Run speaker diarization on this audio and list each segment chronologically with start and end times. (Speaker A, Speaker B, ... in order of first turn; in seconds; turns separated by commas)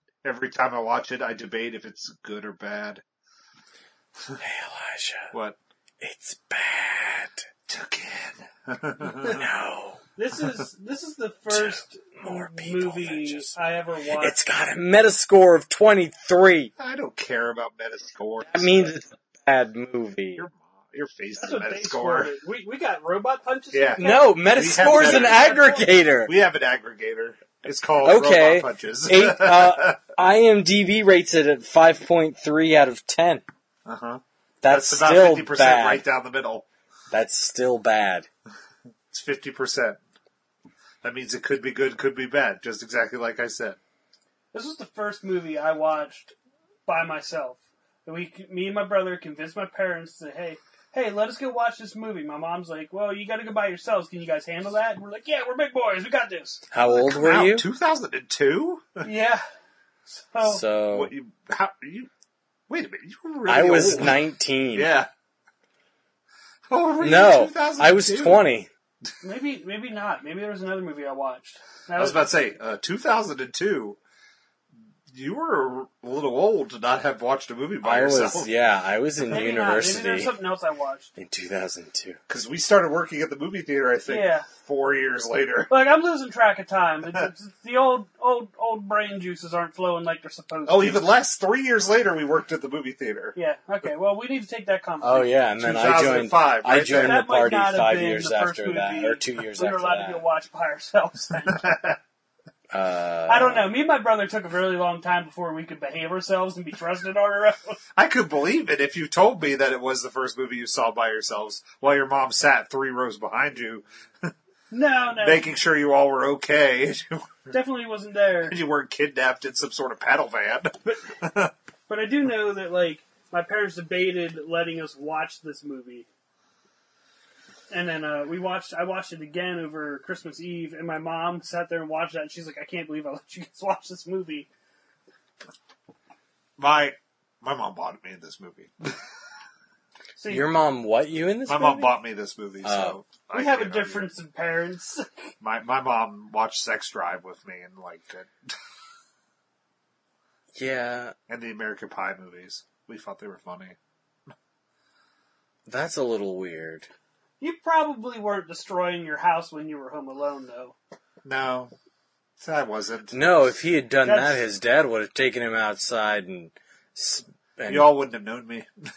Speaker A: 0.2-3.0, Speaker B: 4.4-5.3, Speaker A: 5.3-5.6, Speaker B: 6.0-7.5, Speaker A: 7.7-9.4, Speaker B: 9.2-10.0, Speaker C: 10.2-14.4, Speaker B: 11.5-13.6, Speaker B: 14.2-16.7, Speaker A: 16.8-18.9, Speaker B: 18.5-20.5, Speaker A: 20.4-22.3, Speaker C: 21.4-25.9, Speaker A: 23.7-25.6, Speaker B: 24.0-26.3, Speaker A: 26.3-30.0, Speaker B: 28.0-33.4, Speaker A: 33.9-36.7, Speaker B: 34.6-36.0, Speaker B: 37.1-38.3, Speaker A: 39.1-40.0, Speaker A: 41.0-43.8, Speaker C: 44.5-46.3, Speaker C: 46.9-56.7, Speaker B: 56.7-57.6, Speaker A: 56.9-59.1, Speaker C: 59.0-59.4, Speaker C: 60.1-60.6, Speaker B: 60.4-61.1, Speaker A: 60.9-62.1, Speaker A: 62.7-64.2, Speaker B: 63.5-64.9, Speaker A: 64.8-65.1, Speaker A: 66.7-68.4, Speaker B: 67.0-68.7, Speaker C: 69.2-72.3, Speaker A: 72.0-74.0, Speaker A: 75.1-78.5, Speaker B: 77.8-80.3, Speaker C: 79.3-81.1, Speaker B: 81.2-82.2, Speaker A: 82.3-85.7, Speaker C: 84.1-84.5, Speaker C: 85.7-91.0, Speaker A: 90.7-93.4, Speaker C: 93.4-95.3, Speaker B: 95.0-100.2, Speaker A: 95.6-97.2, Speaker C: 96.9-101.7, Speaker A: 101.5-102.0, Speaker B: 102.7-103.7, Speaker C: 103.3-107.8, Speaker A: 108.0-114.3, Speaker C: 114.7-115.5, Speaker A: 115.2-117.5, Speaker C: 117.5-118.6, Speaker A: 118.5-121.5, Speaker C: 120.8-121.2, Speaker C: 121.9-126.1, Speaker C: 127.7-134.5, Speaker A: 136.6-139.0, Speaker C: 140.2-140.5, Speaker B: 140.3-141.8, Speaker A: 141.5-144.1, Speaker B: 142.6-143.0, Speaker C: 143.3-145.3, Speaker A: 145.4-148.5, Speaker B: 150.6-151.1, Speaker A: 151.3-153.8, Speaker B: 155.7-156.9, Speaker C: 157.4-160.8, Speaker A: 161.2-161.7, Speaker A: 162.4-163.2, Speaker B: 163.1-167.9, Speaker C: 164.0-164.4, Speaker A: 167.7-168.7